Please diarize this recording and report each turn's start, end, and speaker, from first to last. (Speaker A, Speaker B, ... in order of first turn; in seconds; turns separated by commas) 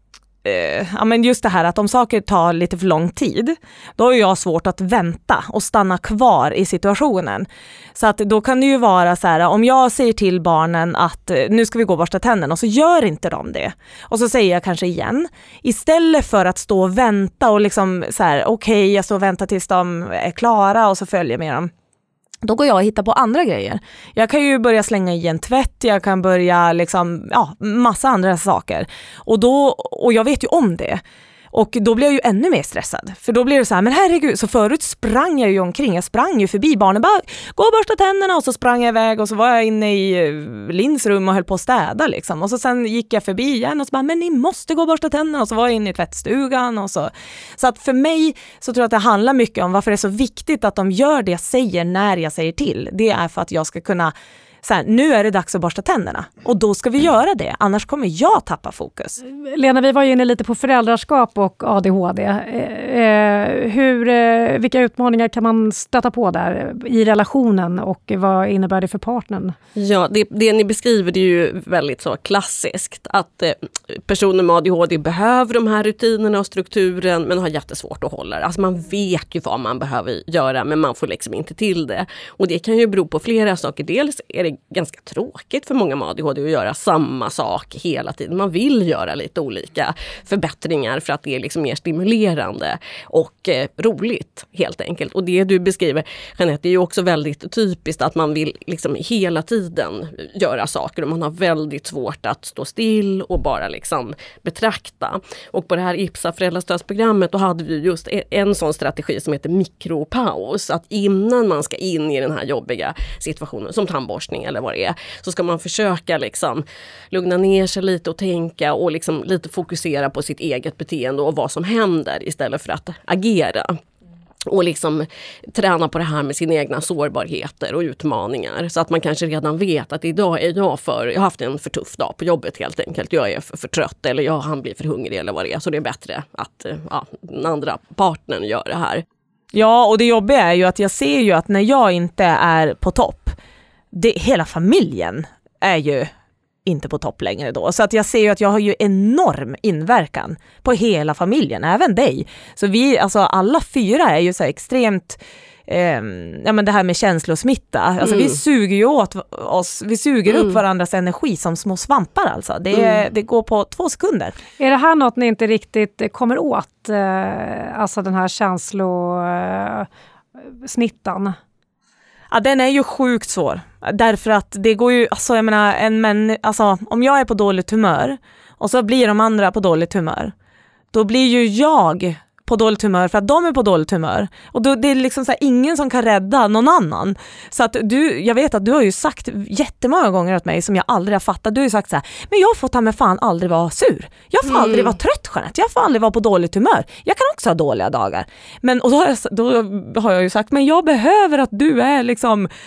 Speaker A: 0.4-21.7, Speaker A: 22.4-31.0, Speaker A: 31.5-59.2, Speaker B: 59.3-69.5, Speaker C: 69.7-123.8, Speaker C: 124.5-139.0, Speaker A: 139.5-143.3, Speaker A: 143.9-146.1, Speaker A: 146.7-164.3, Speaker C: 158.0-158.3, Speaker C: 162.7-163.0, Speaker B: 164.6-169.9, Speaker B: 170.6-171.4, Speaker A: 172.3-180.3, Speaker A: 180.9-202.5, Speaker C: 194.4-194.9